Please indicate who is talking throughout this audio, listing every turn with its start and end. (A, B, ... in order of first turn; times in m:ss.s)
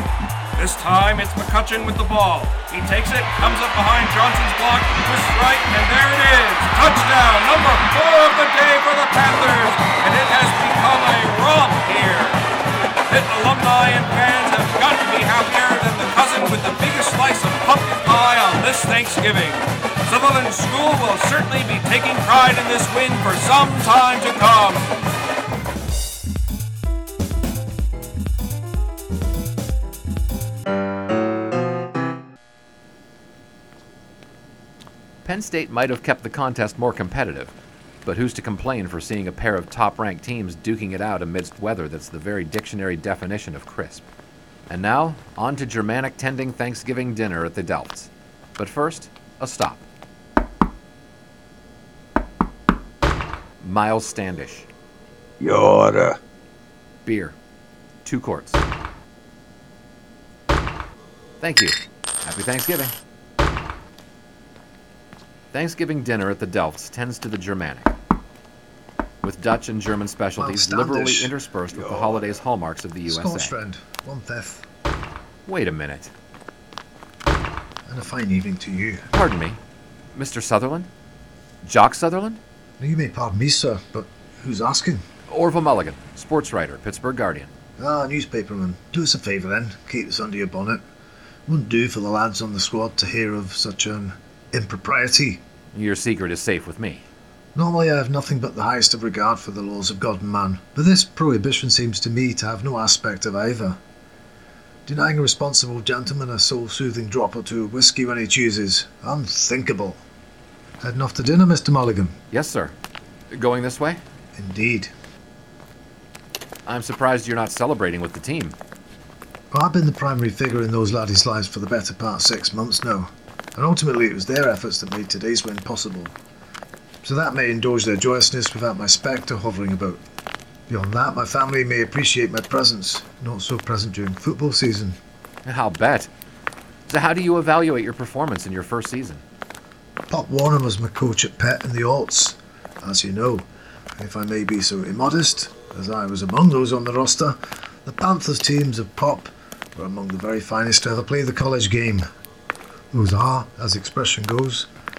0:00.6-0:12.4 A
0:13.1-0:24.9 A
0:35.2-0:37.5 B
0:38.0-0:44.1 B
0:44.7-0:49.9 B
0:53.6-0:54.7 B
0:57.0-0:57.4 B
0:58.0-0:58.6 B
1:01.4-1:03.0 B
1:05.5-1:07.9 B
1:09.2-1:13.5 B
1:10.4-1:12.3 C
1:13.1-1:14.7 C
1:15.5-1:16.1 B
1:17.9-1:19.1 C
1:19.1-1:19.6 B
1:20.1-1:20.9 B
1:21.6-1:22.4 B
1:22.8-1:25.0 C
1:25.3-1:27.5 B
1:27.8-1:30.8 C
1:31.5-1:35.4 C
1:35.7-1:37.1 B
1:37.6-1:43.8 C
1:44.9-1:50.0 C
1:50.8-1:52.2 C
1:52.3-1:52.8 B
1:53.3-1:54.0 B
1:54.4-1:54.9 C
1:56.7-1:58.6 B
1:59.5-2:06.2 C
2:07.0-2:10.0 C
2:10.7-2:15.0 C
2:15.4-2:16.1 B
2:16.9-2:19.2 B
2:20.1-2:32.1 C
2:32.9-2:34.7 C